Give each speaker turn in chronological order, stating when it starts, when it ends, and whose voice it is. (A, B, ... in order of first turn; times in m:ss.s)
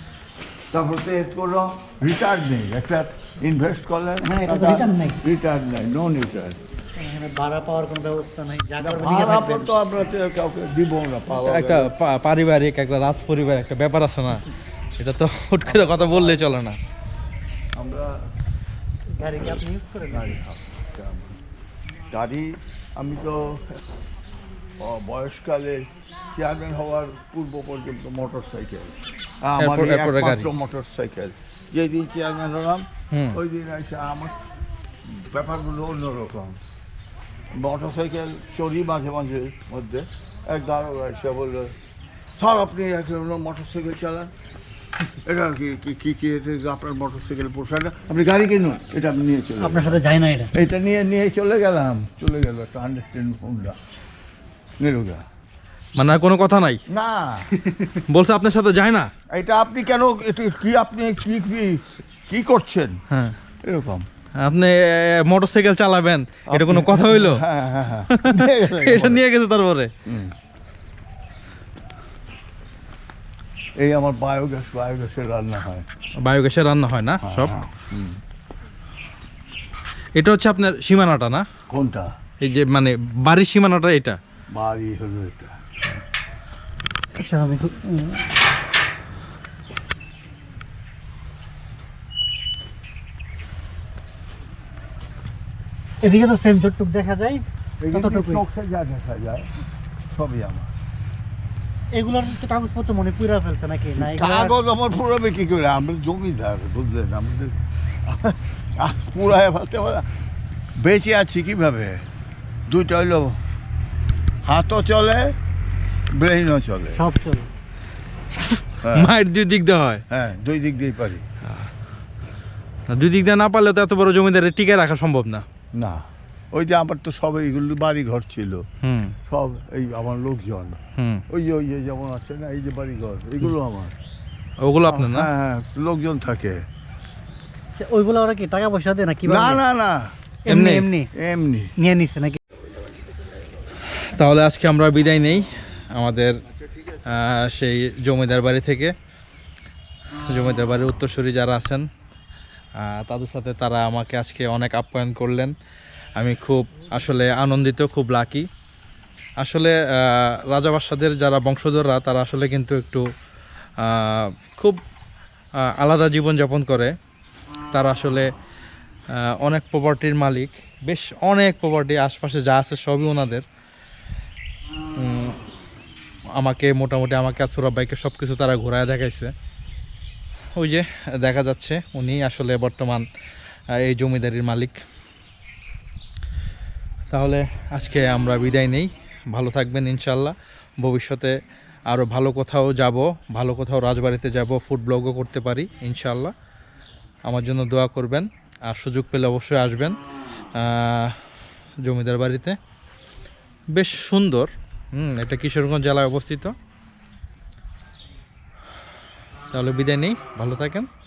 0:00.7-0:06.6 A
0:04.3-0:05.2 B
0:07.0-0:09.8 B
0:08.8-0:11.9 A
0:11.3-0:16.8 C
0:15.6-0:16.4 A
0:17.7-0:18.2 A
0:19.1-0:20.4 B
0:20.1-0:21.4 A
0:22.1-0:23.8 A
0:24.8-0:34.3 A
0:29.6-0:30.5 C
0:33.1-0:33.4 C
0:35.0-0:36.6 A
0:37.5-0:41.7 A
0:42.4-0:44.3 A
0:45.2-0:50.0 A
0:49.6-0:50.5 B
0:50.5-0:53.8 A
0:54.8-0:55.2 A
0:56.0-0:56.8 C
0:56.9-0:57.9 A
0:58.0-0:59.1 C
0:59.3-1:03.0 A
1:03.1-1:03.4 C
1:03.6-1:04.1 A
1:04.4-1:07.4 C
1:06.5-1:09.2 A
1:08.1-1:09.9 C
1:10.1-1:10.3 A
1:13.8-1:15.8 A
1:16.2-1:17.5 C
1:17.2-1:18.2 A
1:20.2-1:21.4 C
1:21.7-1:22.1 A
1:22.4-1:24.2 C
1:24.5-1:25.6 A
1:27.1-1:28.3 B
1:36.0-1:38.4 B
1:37.8-1:39.5 A
1:40.0-1:40.7 A
1:41.9-1:44.6 B
1:44.0-1:50.1 A
1:50.8-1:52.0 A
1:52.7-1:53.4 A
1:54.4-1:55.3 A
1:56.1-1:57.0 A
1:56.9-1:57.5 B
1:58.5-2:00.0 C
1:58.8-1:59.1 A
2:00.1-2:01.2 A
2:02.9-2:05.4 C
2:05.8-2:08.6 A
2:08.8-2:09.2 C
2:09.3-2:10.8 A
2:11.0-2:11.2 C
2:11.3-2:13.9 A
2:14.6-2:15.3 C
2:14.8-2:16.6 A
2:17.8-2:19.6 B
2:19.2-2:20.1 A
2:20.4-2:21.1 B
2:20.5-2:20.9 C
2:21.1-2:21.7 A
2:21.8-2:22.4 B
2:24.1-2:26.4 C
2:26.5-2:27.2 A
2:27.1-2:28.9 C
2:30.2-2:31.8 C
2:32.8-2:35.5 C
2:36.2-2:38.5 C
2:39.4-2:43.0 C
2:43.8-2:44.8 C
2:45.7-2:46.9 C
2:47.7-2:48.3 C
2:49.1-2:53.4 C
2:55.0-2:55.4 C
2:56.4-2:59.3 C
3:00.6-3:03.0 C
3:03.8-3:04.8 C
3:07.1-3:11.3 C
3:11.9-3:16.3 C
3:17.3-3:20.0 C
3:20.5-3:21.2 C
3:21.8-3:22.6 C
3:23.7-3:26.5 C
3:29.5-3:30.9 C